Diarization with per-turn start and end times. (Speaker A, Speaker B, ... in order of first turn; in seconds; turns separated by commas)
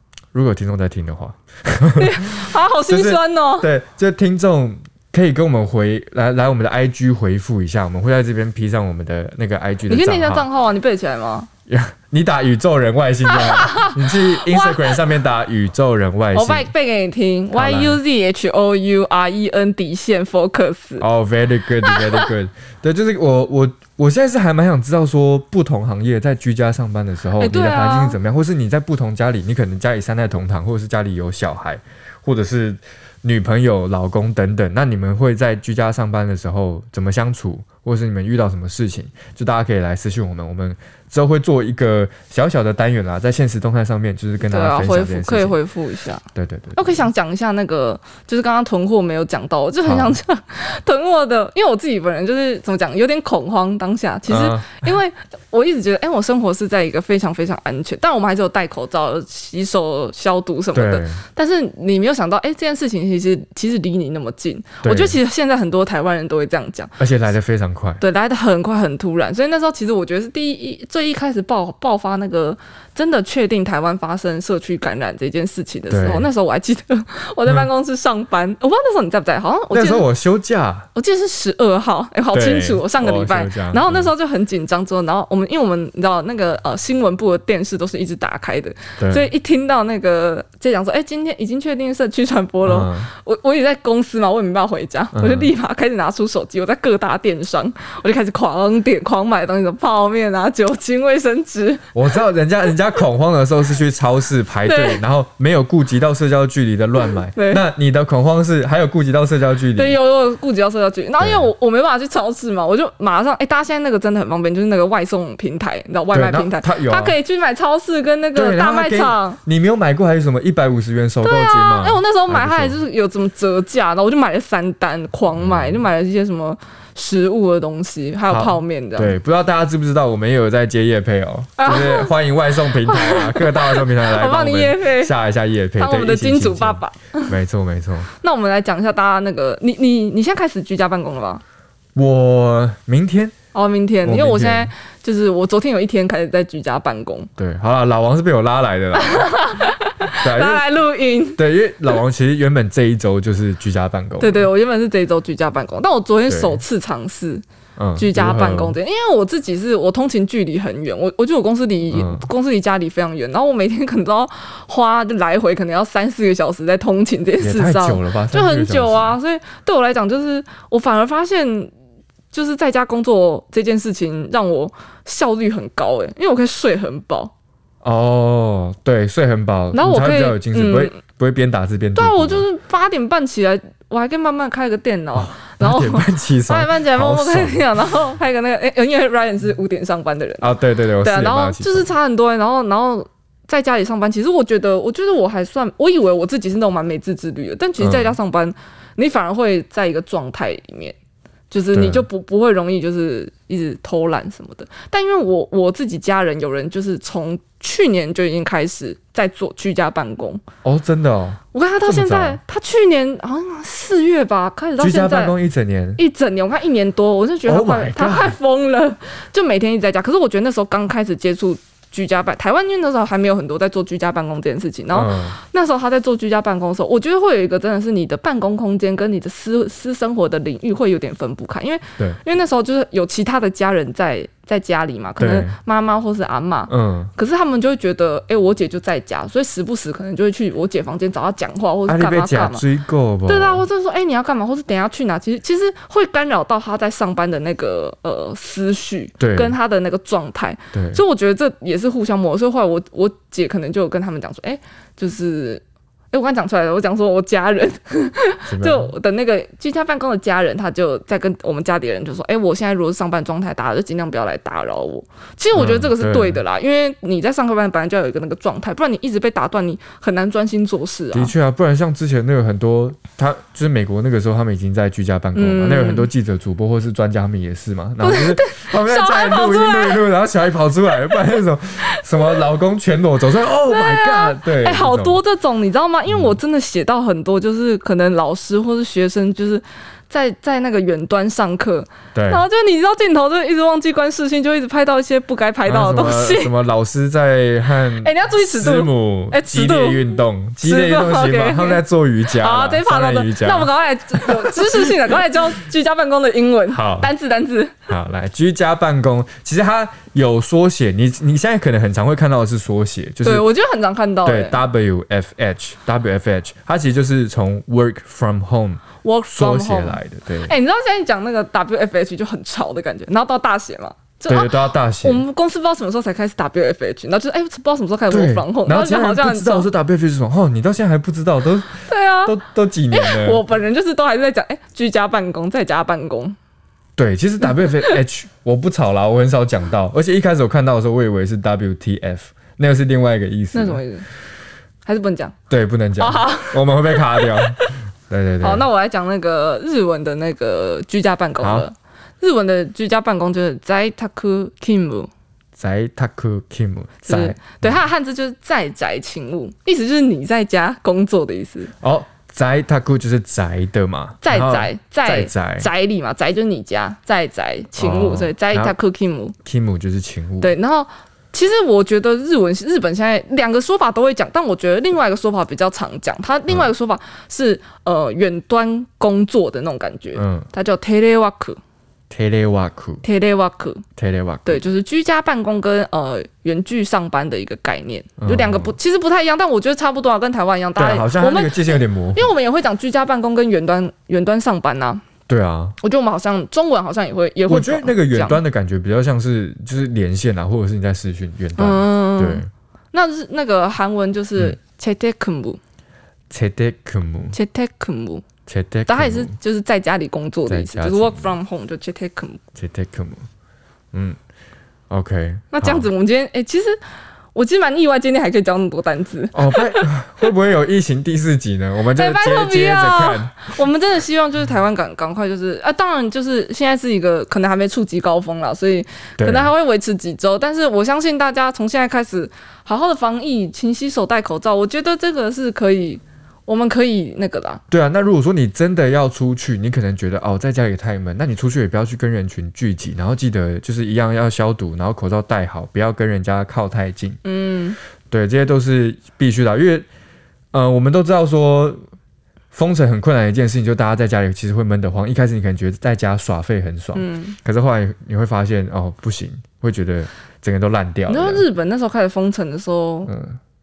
Speaker A: 0.3-10.4, Speaker B: 2.0-3.7, Speaker B: 9.9-11.5, Speaker A: 11.7-16.7, Speaker B: 13.4-14.8, Speaker B: 16.3-21.0, Speaker A: 17.5-18.0, Speaker A: 21.0-45.6, Speaker B: 21.8-22.3, Speaker B: 27.4-28.2, Speaker B: 44.4-46.2, Speaker A: 46.3-47.0, Speaker B: 46.8-67.0, Speaker A: 49.8-50.2, Speaker A: 54.3-54.9, Speaker A: 60.7-61.2, Speaker A: 64.8-65.2, Speaker A: 67.0-68.0, Speaker B: 68.0-80.1, Speaker A: 75.9-76.3, Speaker A: 79.7-80.9, Speaker B: 80.9-101.9, Speaker A: 82.3-84.1, Speaker A: 89.0-89.3, Speaker A: 92.6-93.1, Speaker A: 95.1-95.5, Speaker A: 101.9-110.0, Speaker B: 104.6-105.0, Speaker B: 107.3-107.6, Speaker B: 109.8-119.4, Speaker A: 111.2-111.5, Speaker A: 116.1-117.1, Speaker A: 118.3-122.8, Speaker B: 121.2-129.2, Speaker A: 125.3-125.8, Speaker A: 128.3-138.1, Speaker B: 131.6-135.1, Speaker B: 135.8-137.3, Speaker B: 138.2-141.4, Speaker A: 141.9-143.3, Speaker B: 143.5-147.3, Speaker A: 144.0-144.7, Speaker A: 147.4-149.4, Speaker B: 148.9-152.0, Speaker A: 150.2-150.6, Speaker A: 151.3-154.5, Speaker B: 154.2-157.4, Speaker A: 156.3-156.6, Speaker A: 157.8-158.8, Speaker B: 157.9-171.7, Speaker A: 161.9-162.3, Speaker A: 167.4-169.2, Speaker B: 172.3-177.3, Speaker A: 177.8-182.4, Speaker B: 179.7-181.0, Speaker B: 181.9-200.9, Speaker A: 185.1-187.7, Speaker A: 190.4-191.9, Speaker A: 197.8-198.2, Speaker B: 201.5-210.4, Speaker A: 201.7-202.1, Speaker A: 210.6-212.4, Speaker B: 211.5-215.3, Speaker A: 214.8-216.0, Speaker B: 216.0-242.6, Speaker A: 217.4-218.3, Speaker A: 224.9-225.4, Speaker A: 235.2-235.6, Speaker A: 236.7-237.1, Speaker A: 241.8-243.6, Speaker B: 243.2-271.3, Speaker A: 249.2-249.6, Speaker A: 250.7-251.0, Speaker A: 258.5-258.9, Speaker A: 265.5-266.4, Speaker A: 271.1-285.2, Speaker B: 275.3-276.1, Speaker B: 278.0-280.0, Speaker B: 281.9-282.4, Speaker B: 283.6-296.5, Speaker A: 286.1-286.3, Speaker A: 292.1-292.4, Speaker A: 295.6-305.2, Speaker B: 298.0-307.9, Speaker A: 306.7-307.1, Speaker A: 307.9-313.4, Speaker B: 313.2-314.6, Speaker A: 314.2-320.5, Speaker B: 319.0-329.7, Speaker A: 324.3-325.2, Speaker A: 328.1-333.4, Speaker B: 331.9-332.4, Speaker B: 332.9-336.4, Speaker A: 337.0-343.8, Speaker B: 337.6-338.0, Speaker B: 343.5-344.1, Speaker B: 344.8-345.4, Speaker A: 345.5-348.6, Speaker B: 346.0-347.6, Speaker B: 348.4-355.1, Speaker A: 351.4-351.7, Speaker A: 355.6-357.8, Speaker B: 357.0-361.7, Speaker A: 361.8-365.7, Speaker B: 364.2-369.3, Speaker A: 367.8-368.7, Speaker A: 369.4-370.5, Speaker B: 370.4-381.6, Speaker A: 380.1-380.5, Speaker A: 382.1-383.0, Speaker B: 383.0-383.8, Speaker A: 384.0-384.6, Speaker B: 384.4-395.0, Speaker A: 388.2-388.8, Speaker A: 390.8-392.3, Speaker A: 395.3-395.8, Speaker B: 395.8-398.4, Speaker A: 397.5-402.5, Speaker B: 401.6-405.6, Speaker A: 406.3-407.4, Speaker B: 407.3-408.2, Speaker A: 408.5-409.3, Speaker B: 408.9-412.4, Speaker A: 410.5-411.3, Speaker A: 412.5-413.2, Speaker A: 413.9-414.2, Speaker A: 414.9-415.9, Speaker B: 415.5-416.8, Speaker B: 417.3-419.9, Speaker A: 419.3-423.5, Speaker B: 421.9-437.6, Speaker A: 429.2-429.5, Speaker A: 437.7-447.2, Speaker B: 447.2-447.8, Speaker A: 448.1-449.9, Speaker A: 450.5-451.8, Speaker A: 452.5-461.4, Speaker B: 456.9-457.4, Speaker B: 461.1-463.1, Speaker A: 463.1-463.4